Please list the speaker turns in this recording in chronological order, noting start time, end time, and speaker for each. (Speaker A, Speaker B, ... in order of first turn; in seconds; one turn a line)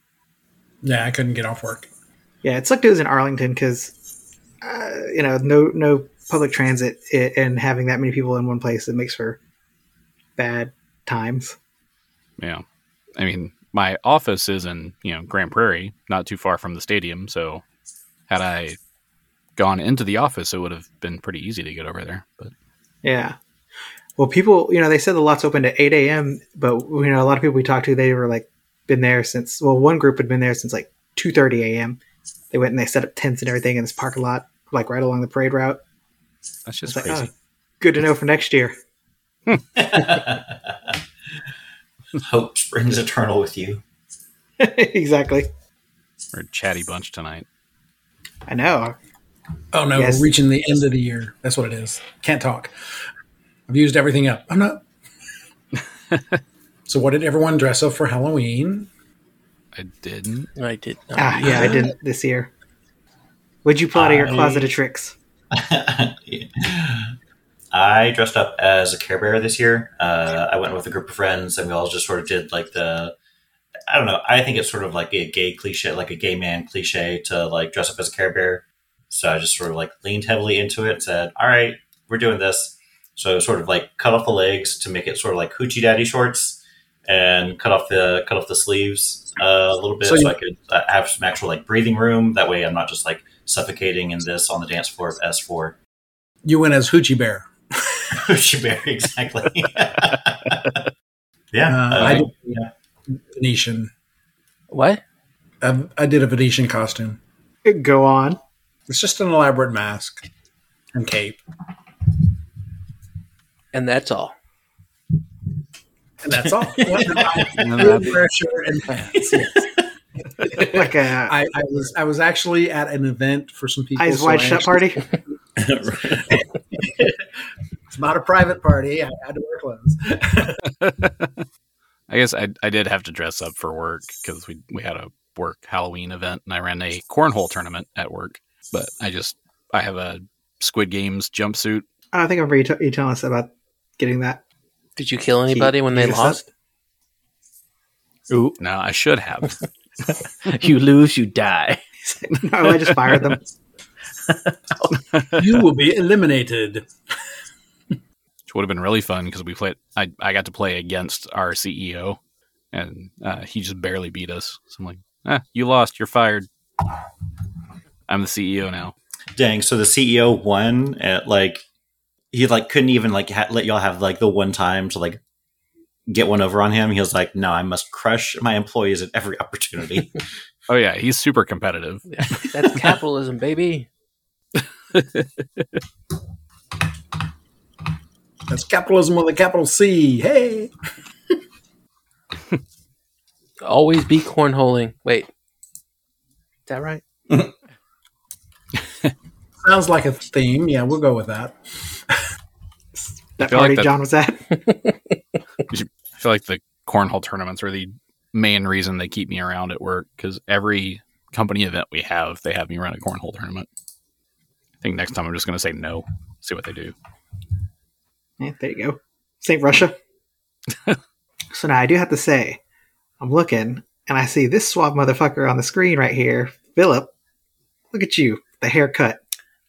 Speaker A: 0.8-1.9
Speaker B: 2.4-4.0
Speaker B: 4.6-9.4
Speaker B: 10.4-11.6
Speaker C: 13.2-17.6
Speaker C: 18.3-18.8
Speaker C: 19.6-22.5
Speaker B: 23.0-23.4
Speaker B: 24.2-32.0
Speaker B: 32.5-35.8
Speaker C: 36.7-37.3
Speaker B: 36.9-37.3
Speaker B: 37.8-38.8
Speaker D: 39.8-41.0
Speaker D: 42.2-43.8
Speaker B: 44.6-45.5
Speaker C: 46.3-47.5
Speaker B: 48.5-49.0
Speaker A: 49.7-52.7
Speaker B: 50.0-50.3
Speaker A: 53.7-54.8
Speaker C: 56.1-56.4
Speaker A: 56.9-58.9
Speaker C: 59.7-60.5
Speaker E: 60.6-61.9
Speaker B: 61.2-62.5
Speaker B: 63.6-65.2
Speaker D: 64.0-64.6
Speaker D: 65.5-67.1
Speaker D: 67.7-73.1
Speaker D: 73.9-95.8
Speaker A: 90.0-90.3
Speaker A: 96.4-98.2
Speaker D: 98.2-100.9
Speaker D: 101.5-102.7
Speaker A: 101.7-103.9
Speaker E: 104.7-105.0
Speaker A: 105.6-107.2
Speaker B: 107.7-108.4
Speaker A: 108.9-110.2
Speaker A: 110.9-111.4
Speaker E: 113.7-114.3
Speaker A: 116.2-119.7
Speaker C: 117.6-118.2
Speaker A: 120.4-124.9
Speaker B: 120.6-121.3
Speaker B: 124.0-125.1
Speaker D: 125.6-126.4
Speaker A: 126.3-127.2
Speaker A: 127.9-130.7
Speaker C: 130.7-131.4
Speaker C: 132.1-141.9
Speaker B: 142.1-144.4
Speaker E: 145.0-146.5
Speaker B: 145.5-146.4
Speaker F: 148.3-148.6
Speaker C: 148.6-149.6
Speaker F: 150.1-151.8
Speaker B: 152.1-153.5
Speaker F: 154.3-154.9
Speaker A: 155.3-156.9
Speaker C: 158.5-162.2
Speaker C: 162.7-166.5
Speaker C: 168.1-168.9
Speaker D: 169.3-171.6
Speaker D: 172.3-175.2
Speaker D: 176.1-180.2
Speaker C: 180.7-182.9
Speaker E: 182.1-183.9
Speaker C: 184.6-185.8
Speaker A: 188.5-190.7
Speaker E: 193.6-195.3
Speaker E: 196.7-197.0
Speaker A: 199.6-202.2
Speaker B: 203.0-204.6
Speaker C: 203.4-203.9
Speaker C: 205.7-213.7
Speaker C: 214.8-216.9
Speaker B: 218.4-219.9
Speaker B: 221.5-222.6
Speaker B: 223.2-227.1
Speaker B: 227.9-229.2